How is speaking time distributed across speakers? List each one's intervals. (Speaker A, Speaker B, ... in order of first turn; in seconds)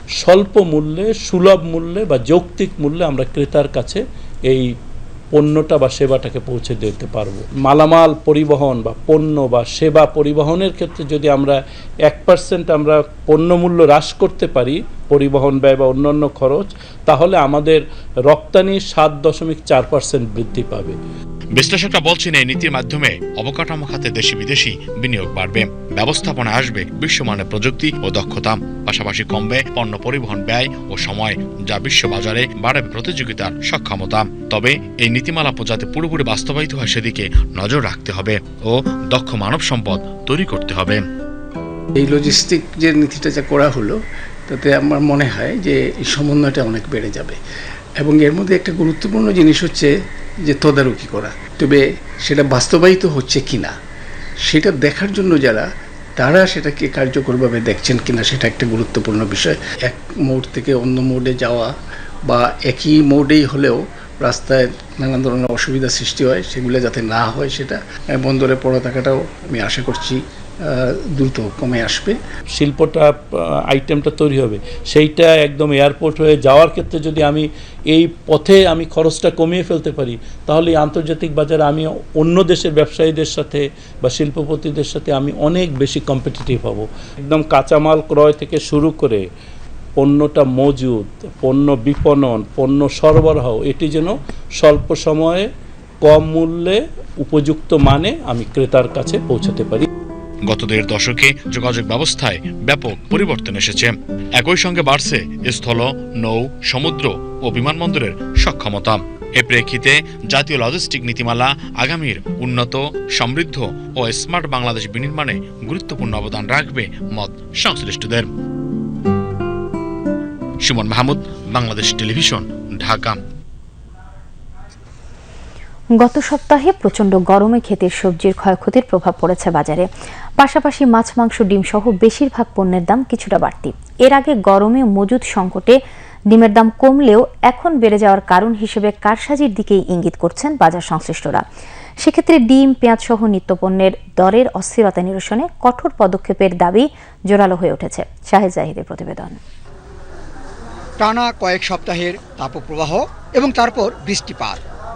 Speaker A: 0.2-4.7, 5.3-21.0, 72.5-89.2, 90.0-95.5, 96.0-99.9
Speaker B: 21.5-41.0, 100.5-118.3, 120.6-123.2
Speaker C: 42.0-44.0, 44.5-47.4, 48.0-49.9, 50.4-53.7, 54.5-61.7, 62.3-72.2
Speaker D: 126.0-129.8, 130.4-135.8, 136.3-141.4, 142.0-149.4
Speaker E: 151.0-154.6